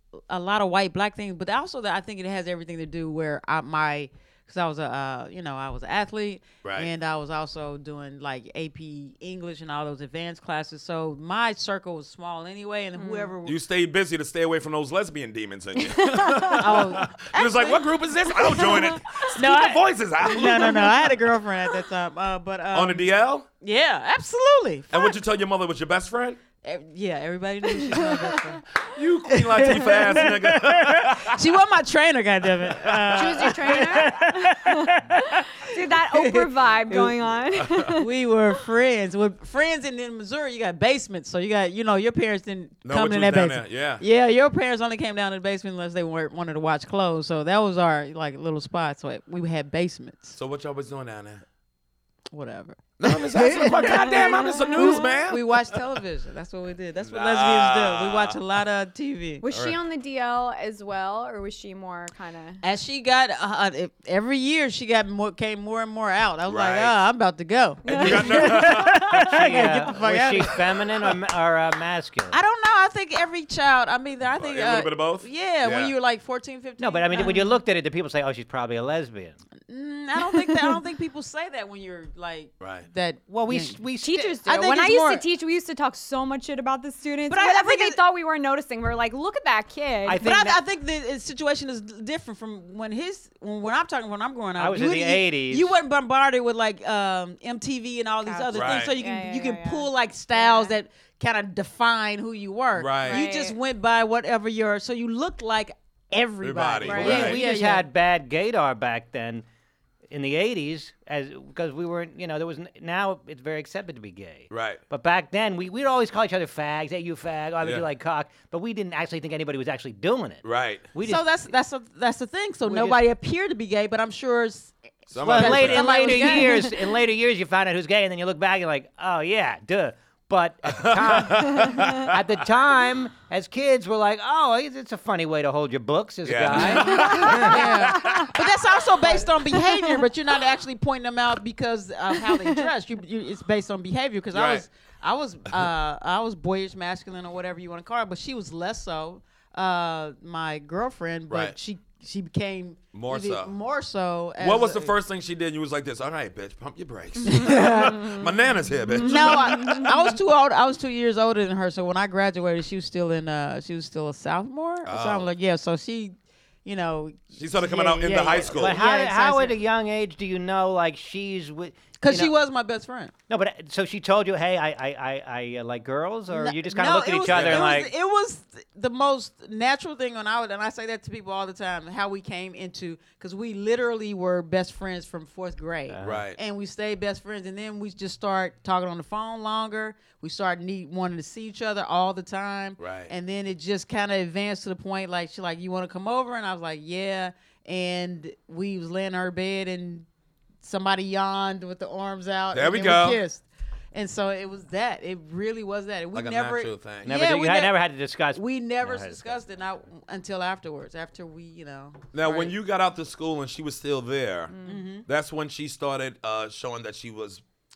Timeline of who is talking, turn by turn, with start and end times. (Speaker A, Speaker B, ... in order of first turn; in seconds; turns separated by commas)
Speaker A: 0.3-13.6, Speaker B: 6.6-6.9, Speaker C: 12.9-13.3, Speaker B: 13.4-21.1, Speaker C: 15.8-16.9, Speaker A: 16.6-23.1, Speaker C: 18.6-19.2, Speaker C: 20.5-20.9, Speaker B: 22.7-23.5, Speaker A: 23.6-25.2, Speaker B: 24.9-26.4, Speaker A: 26.6-28.6, Speaker C: 27.7-28.4, Speaker B: 28.9-31.4, Speaker A: 29.3-35.5, Speaker B: 32.8-33.4, Speaker C: 33.1-38.1, Speaker D: 36.9-37.1, Speaker B: 37.6-37.9, Speaker A: 38.0-50.4, Speaker B: 42.9-44.0, Speaker B: 50.4-51.4, Speaker A: 52.3-59.4, Speaker B: 53.0-55.8, Speaker C: 53.9-55.1, Speaker B: 57.0-58.4, Speaker C: 59.4-62.6, Speaker B: 59.5-59.8, Speaker A: 62.6-70.6, Speaker B: 66.5-67.0, Speaker C: 67.8-69.1, Speaker B: 67.9-69.4, Speaker D: 69.2-72.4, Speaker A: 72.3-77.6, Speaker B: 74.3-75.9, Speaker D: 76.8-79.4, Speaker A: 79.7-83.8, Speaker B: 82.6-82.9, Speaker D: 83.3-84.4, Speaker C: 84.0-90.2, Speaker A: 84.5-85.2, Speaker A: 87.3-88.0, Speaker D: 90.0-90.6, Speaker A: 90.2-107.9, Speaker D: 94.6-95.8, Speaker C: 98.2-100.8, Speaker B: 98.5-98.9, Speaker B: 102.8-103.2, Speaker C: 103.0-103.6, Speaker B: 106.4-107.4, Speaker C: 106.8-107.3, Speaker D: 106.9-109.5, Speaker D: 110.1-121.3, Speaker B: 114.5-114.8, Speaker B: 120.4-120.9, Speaker A: 121.0-126.8, Speaker D: 122.7-123.0, Speaker B: 125.1-126.1, Speaker D: 125.2-137.5, Speaker C: 126.1-126.5, Speaker B: 130.7-132.2, Speaker B: 136.2-138.3, Speaker A: 136.6-154.9, Speaker C: 136.7-138.3, Speaker C: 139.5-140.1, Speaker C: 142.1-142.7, Speaker B: 144.3-144.7, Speaker B: 151.3-151.6, Speaker B: 152.9-153.5, Speaker B: 154.4-159.9, Speaker A: 157.2-158.2, Speaker A: 158.9-169.6, Speaker C: 159.0-159.9, Speaker B: 164.8-165.3, Speaker B: 167.4-168.8, Speaker D: 168.3-172.3, Speaker A: 172.0-173.1, Speaker D: 173.3-177.9, Speaker A: 176.3-200.1, Speaker B: 177.3-177.7, Speaker D: 185.9-186.2, Speaker B: 186.0-186.4, Speaker B: 192.8-193.1, Speaker A: 200.6-207.8, Speaker B: 202.5-203.2, Speaker B: 206.1-207.1, Speaker D: 207.0-209.4, Speaker A: 208.3-212.5, Speaker B: 212.1-214.5, Speaker C: 214.5-214.8, Speaker A: 214.6-215.0, Speaker B: 215.1-217.4